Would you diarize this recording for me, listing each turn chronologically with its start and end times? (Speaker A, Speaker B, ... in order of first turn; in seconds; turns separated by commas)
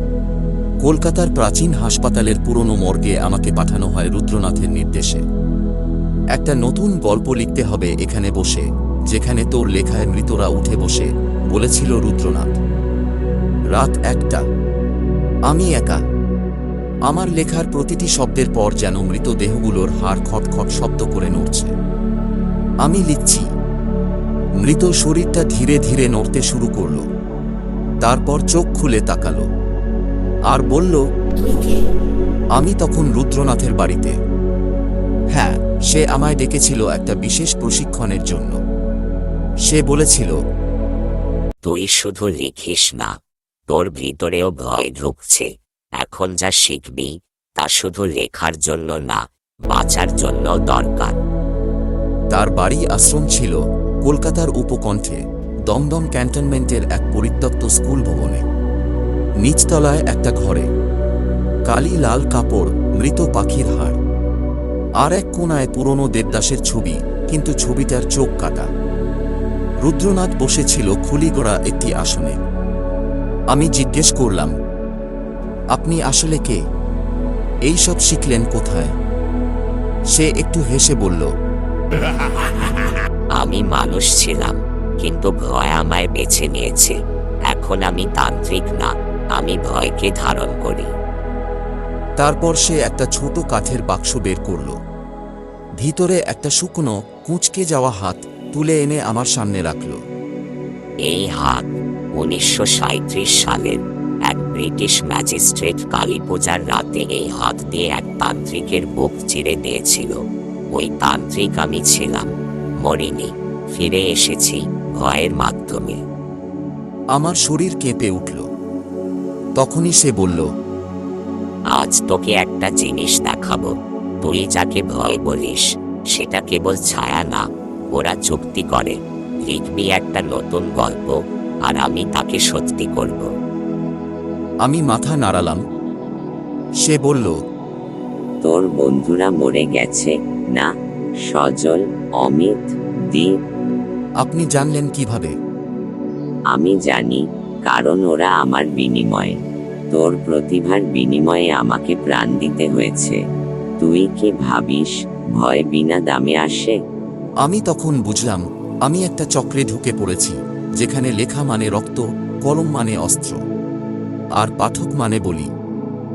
Speaker A: 0.8-5.2, Speaker A: 6.3-12.6, Speaker A: 13.7-14.4, Speaker A: 15.5-16.0, Speaker A: 17.1-21.7, Speaker A: 22.8-23.4, Speaker A: 24.6-27.0, Speaker A: 28.0-29.4, Speaker A: 30.5-31.0, Speaker A: 32.6-34.1, Speaker A: 35.3-38.6, Speaker A: 39.7-40.4, Speaker B: 41.6-43.1, Speaker B: 43.7-51.2, Speaker A: 52.3-58.4, Speaker A: 59.4-60.7, Speaker A: 61.7-64.0, Speaker A: 65.0-68.7, Speaker A: 69.8-72.4, Speaker A: 73.5-74.5, Speaker A: 75.8-76.6, Speaker A: 77.7-78.9, Speaker A: 80.1-81.3, Speaker B: 83.4-87.0, Speaker B: 87.5-90.9, Speaker A: 92.2-94.7, Speaker A: 95.8-100.0, Speaker B: 101.0-110.2, Speaker B: 110.7-112.3, Speaker B: 112.8-116.0, Speaker A: 117.2-118.4, Speaker A: 119.6-120.5, Speaker B: 121.7-133.3, Speaker A: 134.7-135.6, Speaker A: 136.8-137.3, Speaker B: 138.4-140.7, Speaker B: 141.3-143.4, Speaker A: 144.2-145.3, Speaker B: 146.5-149.4, Speaker B: 149.9-153.2, Speaker B: 153.8-156.8, Speaker A: 157.4-163.4, Speaker A: 164.4-165.5